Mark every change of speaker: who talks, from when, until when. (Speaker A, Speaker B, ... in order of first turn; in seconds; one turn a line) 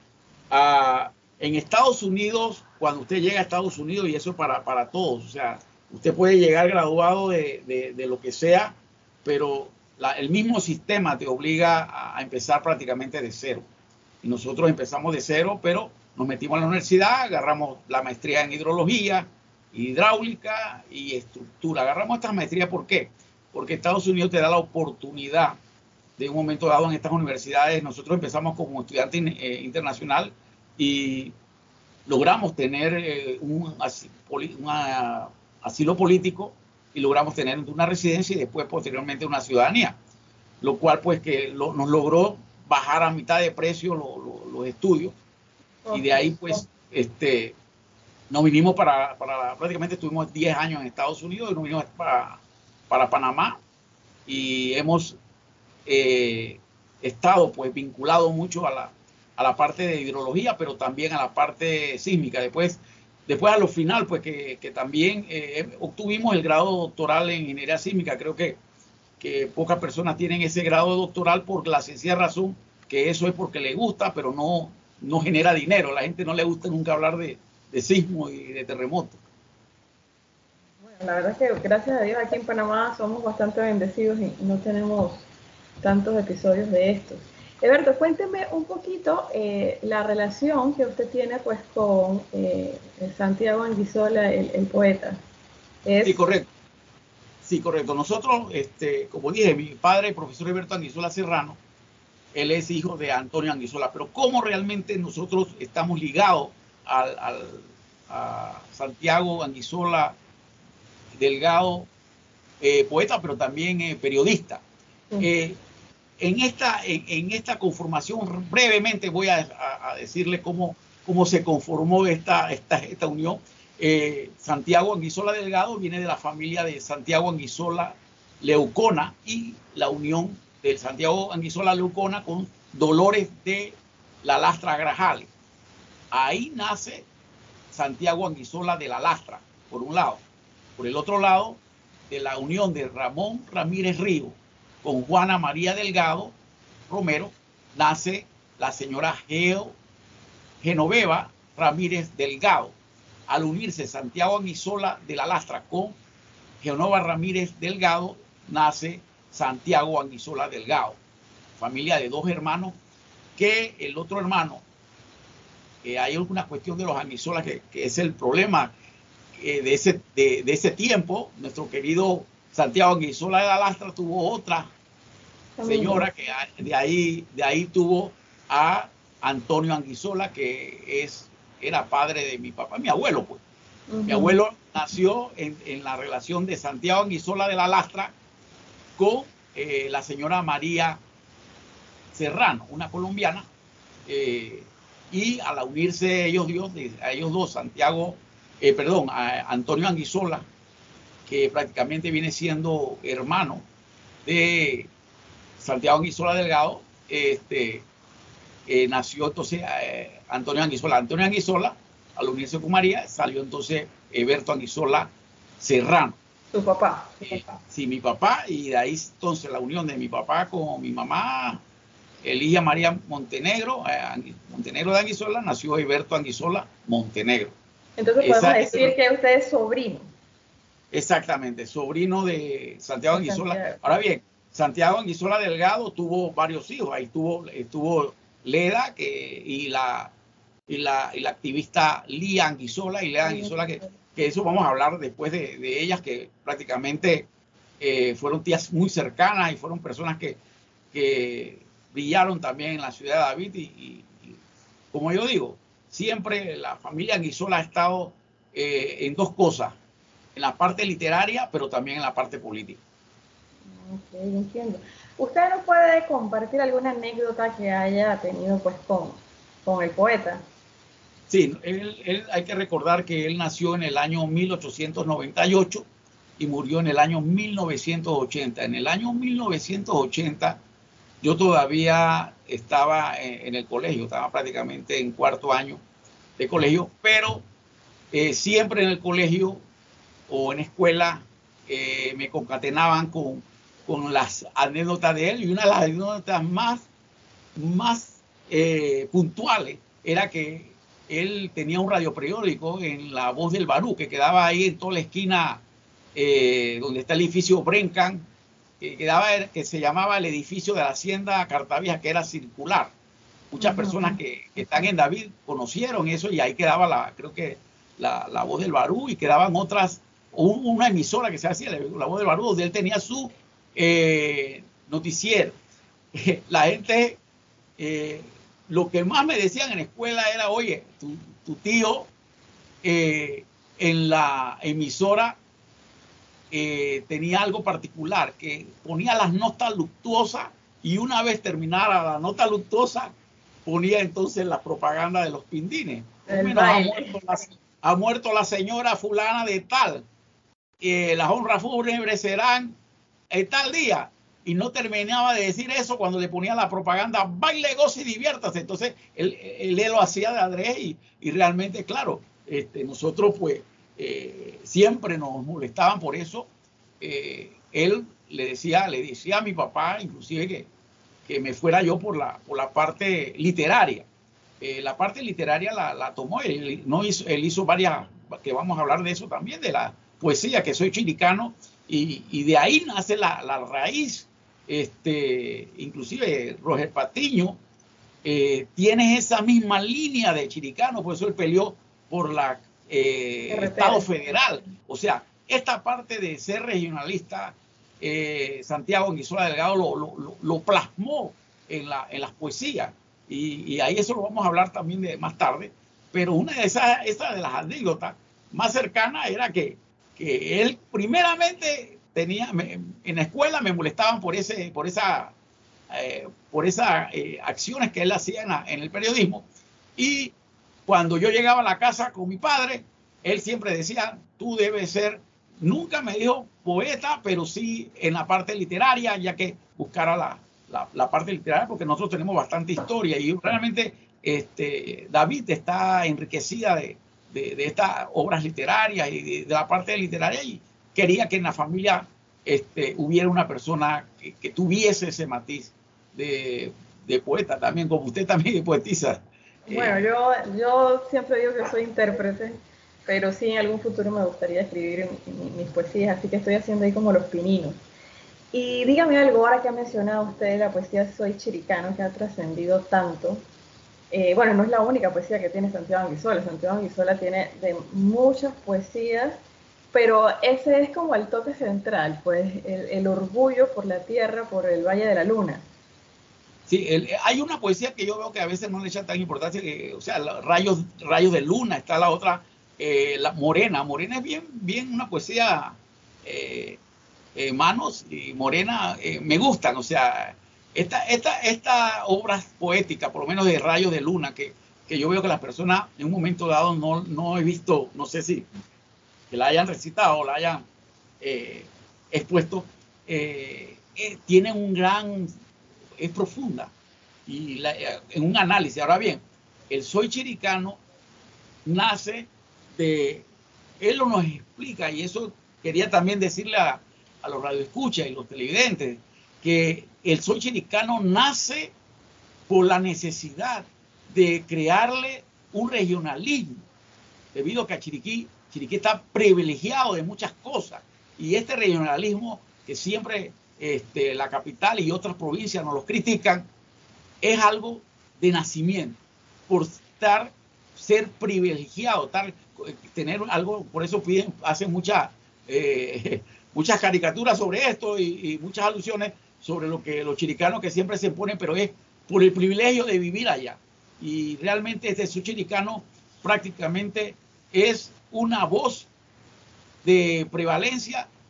Speaker A: 0.5-13.7
Speaker A: 14.2-25.6
Speaker A: 26.2-31.3
Speaker A: 32.1-40.0
Speaker A: 40.6-45.1
Speaker B: 45.9-46.6
Speaker A: 45.9-47.5
Speaker A: 48.3-53.6
Speaker A: 54.3-55.2
Speaker A: 55.9-68.6
Speaker A: 69.2-79.2
Speaker B: 80.8-85.2
Speaker B: 85.8-95.2
Speaker B: 95.8-96.2
Speaker A: 96.0-96.5
Speaker A: 97.4-101.6
Speaker A: 102.3-110.2
Speaker A: 111.2-111.9
Speaker A: 112.6-114.6
Speaker A: 115.2-115.6
Speaker A: 116.2-135.3
Speaker A: 136.1-137.1
Speaker A: 137.7-140.2
Speaker A: 140.8-146.3
Speaker A: 146.9-149.8
Speaker A: 150.6-152.7
Speaker A: 153.3-155.9
Speaker A: 156.6-161.0
Speaker A: 161.6-162.8
Speaker A: 163.4-164.6
Speaker A: 165.8-168.7
Speaker A: 169.3-174.7
Speaker B: 175.6-176.1
Speaker A: 175.6-183.4
Speaker B: 183.9-184.3
Speaker A: 184.1-188.1
Speaker A: 189.0-191.0
Speaker A: 192.1-193.5
Speaker A: 194.1-200.5
Speaker A: 201.3-203.7
Speaker A: 204.2-204.9
Speaker A: 205.6-207.8
Speaker A: 208.7-216.2
Speaker B: 216.5-217.6
Speaker A: 217.2-221.6
Speaker A: 222.2-227.5
Speaker B: 228.0-230.1
Speaker A: 228.2-228.9
Speaker A: 230.9-240.1
Speaker B: 233.1-233.8
Speaker A: 240.7-247.3
Speaker B: 243.2-243.9
Speaker A: 247.8-250.4
Speaker A: 250.9-254.4
Speaker A: 254.9-259.8
Speaker A: 260.3-262.8
Speaker B: 263.7-270.4
Speaker A: 271.3-275.8
Speaker A: 276.4-280.6
Speaker A: 281.2-285.8
Speaker A: 286.4-287.4
Speaker A: 288.1-289.6
Speaker A: 290.3-296.9
Speaker A: 297.6-305.6
Speaker A: 306.1-308.2
Speaker A: 308.8-312.9
Speaker A: 313.5-325.6
Speaker B: 313.6-314.2
Speaker A: 326.1-327.2
Speaker A: 327.8-332.1
Speaker A: 332.8-335.4
Speaker A: 336.5-343.1
Speaker A: 343.6-350.0
Speaker B: 346.3-347.1
Speaker A: 350.8-352.8
Speaker A: 353.3-366.5
Speaker A: 367.0-370.7
Speaker A: 371.2-374.1
Speaker A: 374.6-387.6
Speaker A: 388.2-415.3
Speaker B: 393.5-394.1
Speaker A: 415.9-420.3
Speaker A: 420.9-450.0
Speaker B: 449.7-457.8
Speaker B: 458.5-463.4
Speaker B: 464.1-469.4
Speaker B: 469.9-475.6
Speaker A: 476.7-486.8
Speaker A: 487.3-498.5
Speaker A: 499.3-500.6
Speaker A: 501.2-505.3
Speaker A: 506.0-506.7
Speaker A: 507.3-510.8
Speaker A: 511.6-513.2
Speaker A: 513.8-521.7
Speaker A: 522.5-526.6
Speaker A: 527.3-536.5
Speaker A: 537.2-558.9
Speaker A: 559.8-561.1